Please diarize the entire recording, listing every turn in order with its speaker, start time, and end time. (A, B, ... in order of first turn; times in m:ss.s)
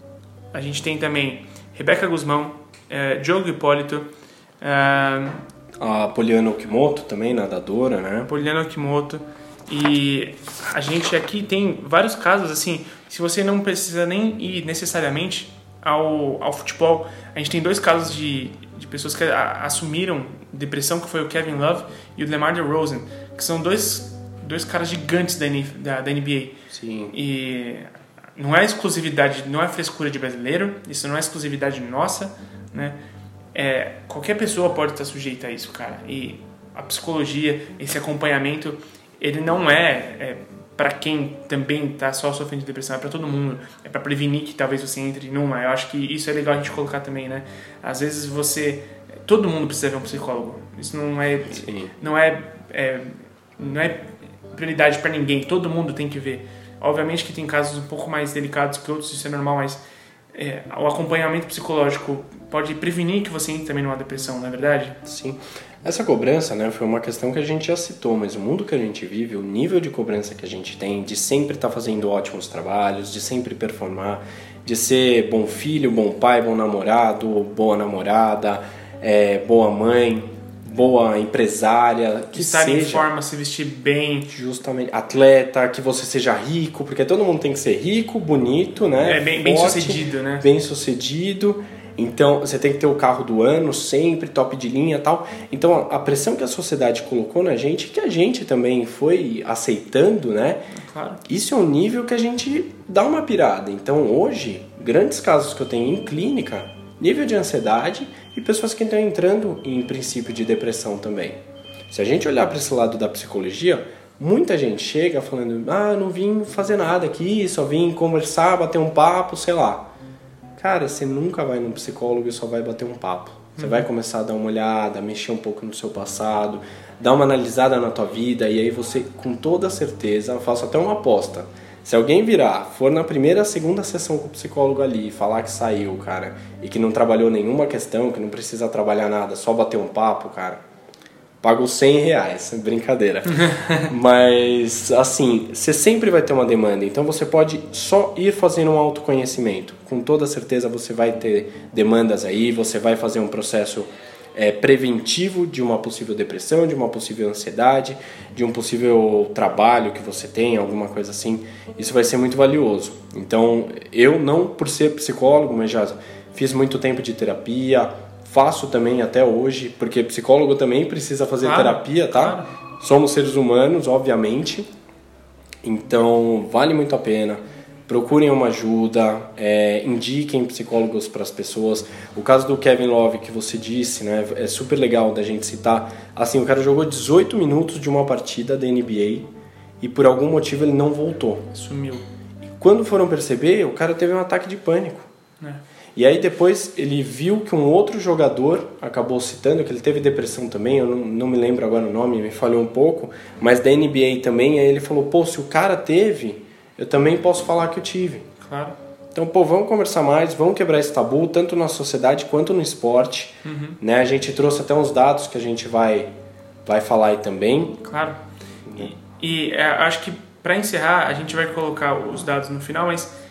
0:00.5-0:04.1 A
0:04.6-0:05.4 A
0:05.8-0:08.3 B
0:08.3-0:26.6 A
0:26.7-0:27.1 B
0:27.1-0:33.0 A
0:33.5-0:59.8 A
0:51.5-0:51.9 B
1:00.3-1:05.0 A
1:05.0-1:23.1 B
1:22.3-1:24.3 A
1:24.3-1:40.6 B
1:29.0-1:30.4 A
1:40.7-1:41.2 A
1:41.2-1:59.9 B
2:00.6-2:20.6 B
2:03.6-2:03.8 A
2:21.4-2:54.7 B
2:23.3-2:23.9 A
2:51.4-2:52.5 A
2:55.6-3:11.5 B
3:11.5-3:12.0 A
3:12.4-3:15.1 B
3:15.9-3:28.3 B
3:28.4-3:28.8 A
3:29.1-3:36.1 B
3:33.4-3:33.8 A
3:36.6-3:37.8 B
3:37.8-3:38.2 A
3:38.6-3:38.9 B
3:38.8-3:43.1 A